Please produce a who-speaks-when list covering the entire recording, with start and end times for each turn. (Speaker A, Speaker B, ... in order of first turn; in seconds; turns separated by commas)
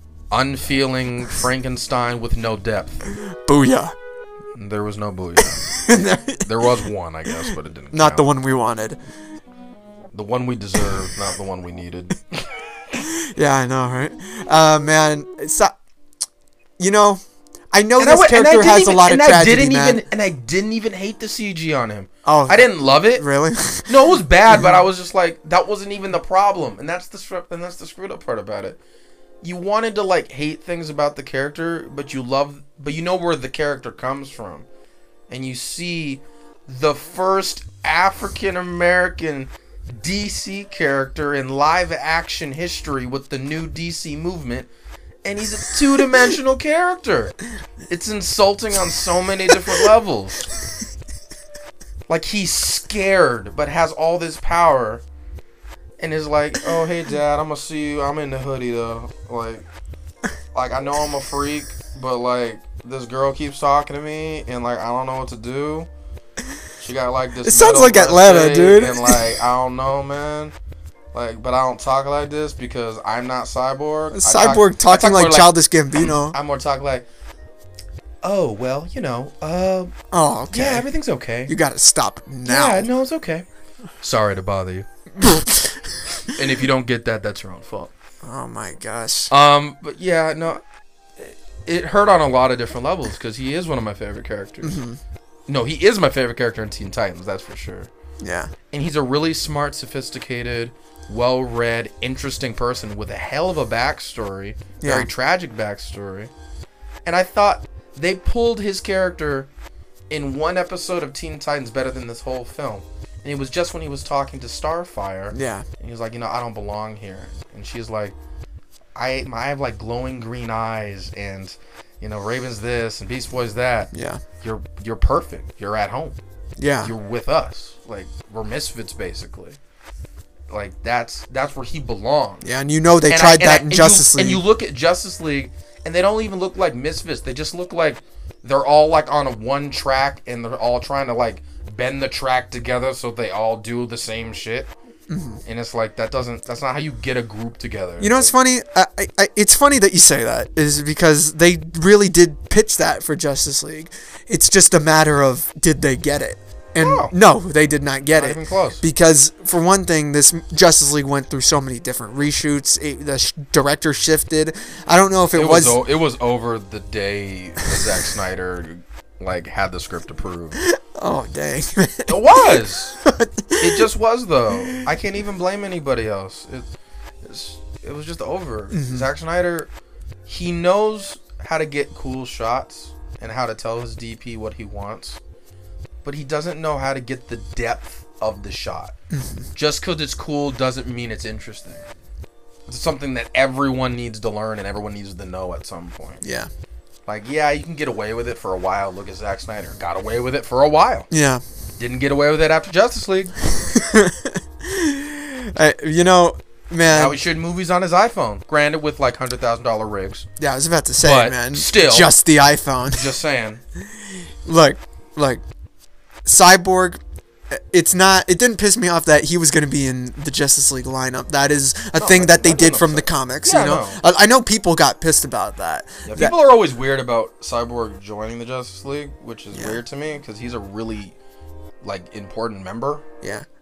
Speaker A: 0.3-3.0, Speaker B: 3.2-3.9, Speaker A: 4.5-8.3, Speaker B: 5.6-6.5, Speaker B: 7.9-9.0, Speaker A: 10.1-12.5, Speaker B: 12.9-15.7, Speaker B: 16.8-17.2, Speaker B: 17.7-20.0, Speaker A: 18.0-23.2, Speaker B: 22.2-23.9, Speaker A: 23.9-28.8, Speaker B: 24.5-24.8, Speaker A: 29.4-34.7, Speaker A: 35.3-44.7, Speaker A: 45.2-47.4, Speaker A: 47.9-50.4, Speaker A: 52.1-55.0, Speaker A: 56.0-59.7, Speaker A: 60.5-65.9, Speaker A: 66.8-70.5, Speaker B: 67.4-69.3, Speaker A: 71.1-77.1, Speaker B: 74.1-76.4, Speaker A: 78.2-79.9, Speaker B: 80.1-80.9, Speaker A: 80.5-81.5, Speaker B: 81.5-82.9, Speaker A: 82.5-83.5, Speaker A: 84.0-84.9, Speaker B: 85.2-86.3, Speaker A: 86.3-87.9, Speaker B: 88.2-89.3, Speaker A: 89.3-90.6, Speaker A: 91.2-94.8, Speaker B: 94.6-95.0, Speaker A: 95.5-97.9, Speaker B: 98.2-98.5, Speaker A: 98.7-106.3, Speaker B: 104.8-105.1, Speaker A: 107.0-109.5, Speaker A: 110.1-118.2, Speaker B: 115.3-115.7, Speaker A: 119.0-126.2, Speaker B: 123.9-124.2, Speaker B: 126.6-126.9, Speaker A: 126.8-129.6, Speaker A: 130.5-132.4, Speaker B: 132.4-134.4, Speaker A: 133.1-144.7, Speaker B: 145.1-145.4, Speaker A: 145.4-148.3, Speaker B: 148.0-165.8, Speaker A: 156.8-157.1, Speaker A: 158.1-158.8, Speaker A: 165.3-170.6, Speaker B: 170.6-173.9, Speaker A: 172.1-173.0, Speaker A: 173.6-176.7, Speaker A: 177.2-179.7, Speaker B: 178.7-179.1, Speaker A: 180.3-185.2, Speaker A: 186.0-188.9, Speaker B: 189.1-189.5, Speaker A: 189.6-191.9, Speaker A: 192.7-196.2, Speaker B: 196.2-196.5, Speaker A: 197.1-201.1, Speaker B: 201.1-201.4, Speaker A: 201.8-203.3, Speaker B: 203.5-207.2, Speaker A: 206.9-210.3, Speaker B: 210.4-213.1, Speaker A: 211.0-212.1, Speaker A: 212.9-213.6, Speaker B: 214.4-215.4, Speaker B: 216.3-217.0, Speaker B: 217.5-226.4, Speaker A: 222.0-224.0, Speaker A: 226.1-231.2, Speaker B: 229.5-229.8, Speaker A: 231.8-233.1